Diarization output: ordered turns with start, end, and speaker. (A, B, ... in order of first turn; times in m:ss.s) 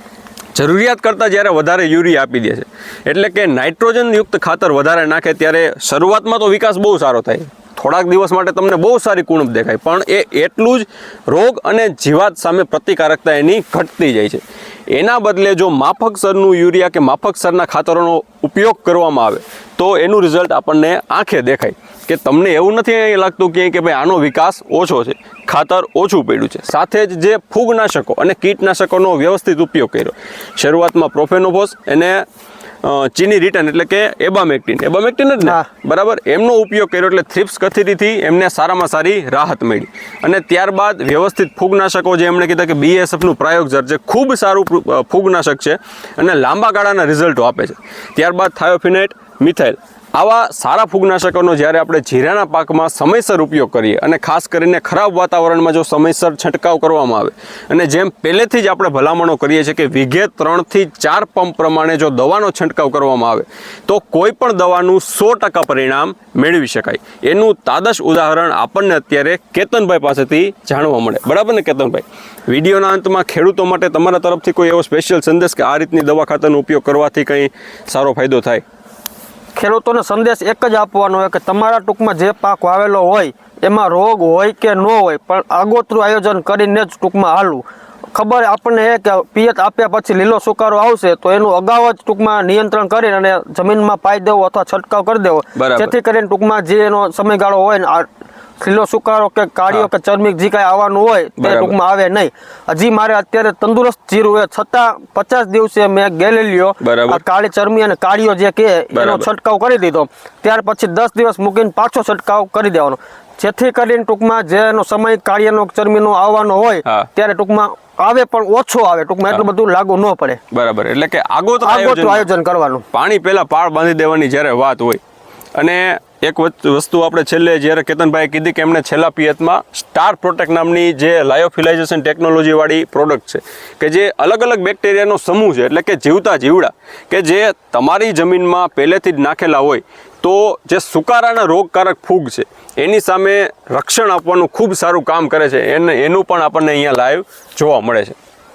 0:00.6-0:32.2 A
0:32.8-1:18.6 A
0:35.4-0:35.7 B
1:19.6-1:38.1 B
1:35.6-1:35.9 A
1:38.6-2:00.4 B
1:41.4-1:41.8 A
1:46.8-1:47.2 A
1:48.9-1:49.3 A
2:00.5-2:02.3 A
2:01.6-2:02.8 B
2:02.9-2:05.0 A
2:05.6-2:28.2 A